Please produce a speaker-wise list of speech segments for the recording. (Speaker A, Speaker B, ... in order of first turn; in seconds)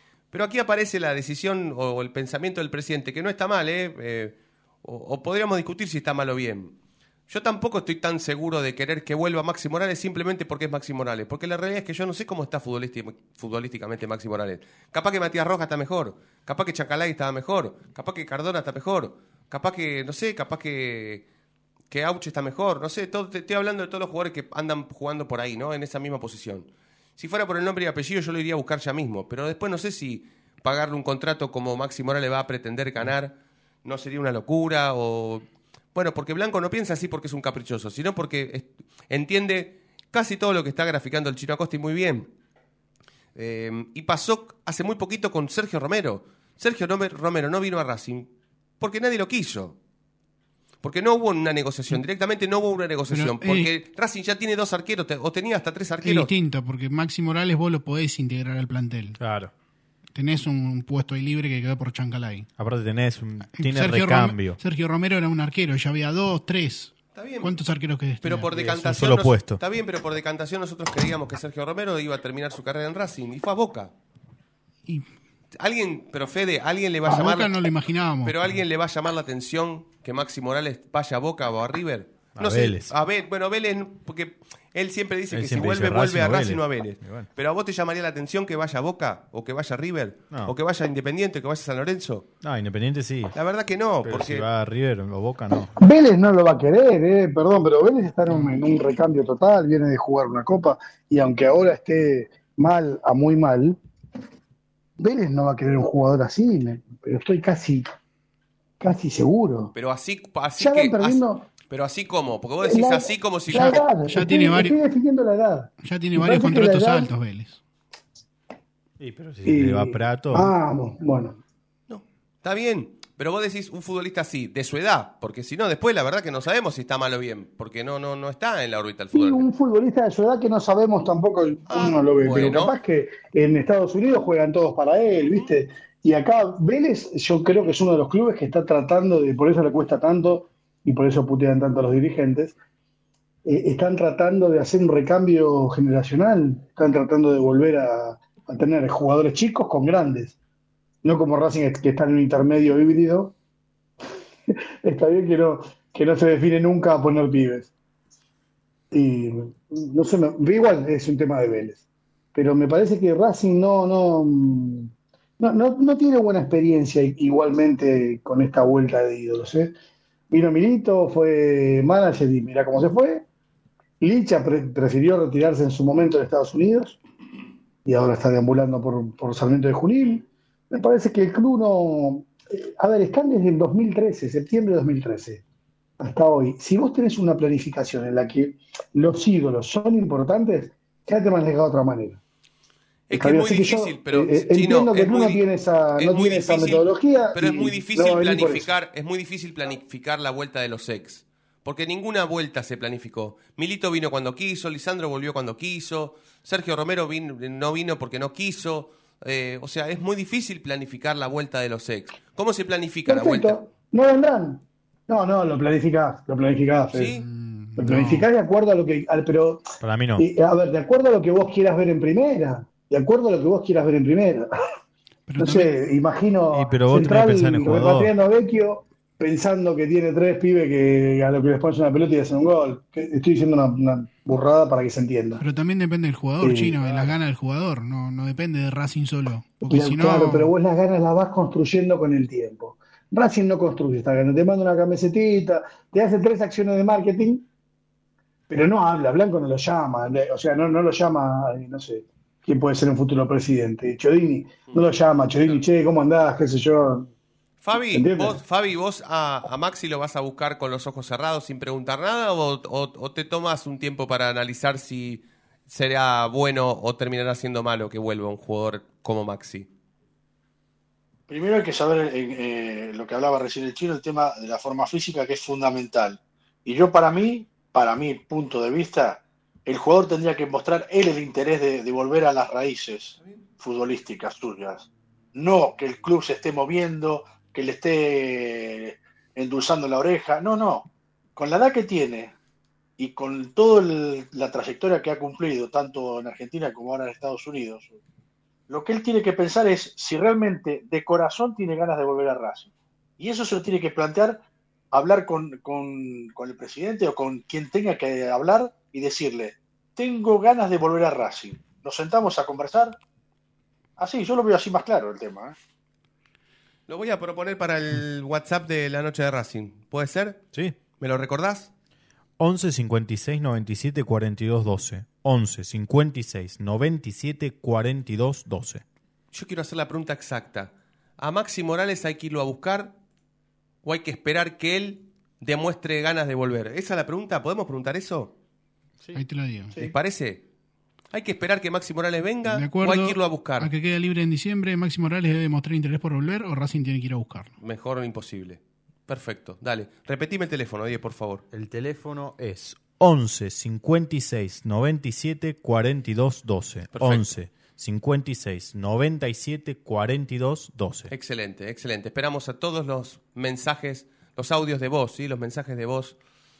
Speaker A: 0.3-6.7, 7.3-21.3, 21.9-33.3, 33.9-42.3, 43.4-48.3, 48.8-49.8, 50.8-56.3, 67.2-67.5, 68.2-73.9, 75.6-77.7, 78.2-92.3, 93.3-94.5, 109.8-113.8, 121.9-129.5, 131.7-132.7, 193.1-195.4, 196.0-213.6, 216.9-217.2, 257.6-269.7, 316.9-320.4, 321.0-321.7, 329.3-332.9, 333.8-338.3, 339.8-340.4, 341.1-343.7, 347.6-351.4, 356.9-357.3, 361.1-366.2
Speaker B: 53.1-53.7, 56.0-59.2, 60.1-62.5, 63.5-68.5, 77.1-78.6, 113.6-114.8, 115.8-117.6, 217.2-218.3, 225.3-225.7, 235.4-240.5, 339.1-339.7, 342.4-347.6
Speaker C: 59.2-59.5, 62.6-64.6, 68.5-69.6, 82.3-82.9, 85.3-87.3, 92.4-93.4, 94.0-95.8, 119.0-120.5, 219.8-220.2, 226.5-228.1, 322.4-328.8, 351.5-361.1
Speaker D: 95.6-103.8, 105.0-108.0, 108.8-109.7, 110.6-111.5, 112.6-117.1, 119.4-121.4, 129.1-142.6, 143.4-150.4, 151.0-153.3, 154.5-157.7, 158.9-161.8, 162.3-169.8, 170.3-173.3, 174.0-177.0, 177.8-185.4, 186.0-192.2, 193.1-198.7, 213.1-217.1, 217.8-219.7, 220.2-224.5, 225.4-235.4, 236.4-237.2, 239.7-247.4, 248.5-257.1, 257.9-258.4
Speaker E: 271.3-292.3, 293.0-298.0, 298.7-304.4, 304.9-313.0, 314.0-315.6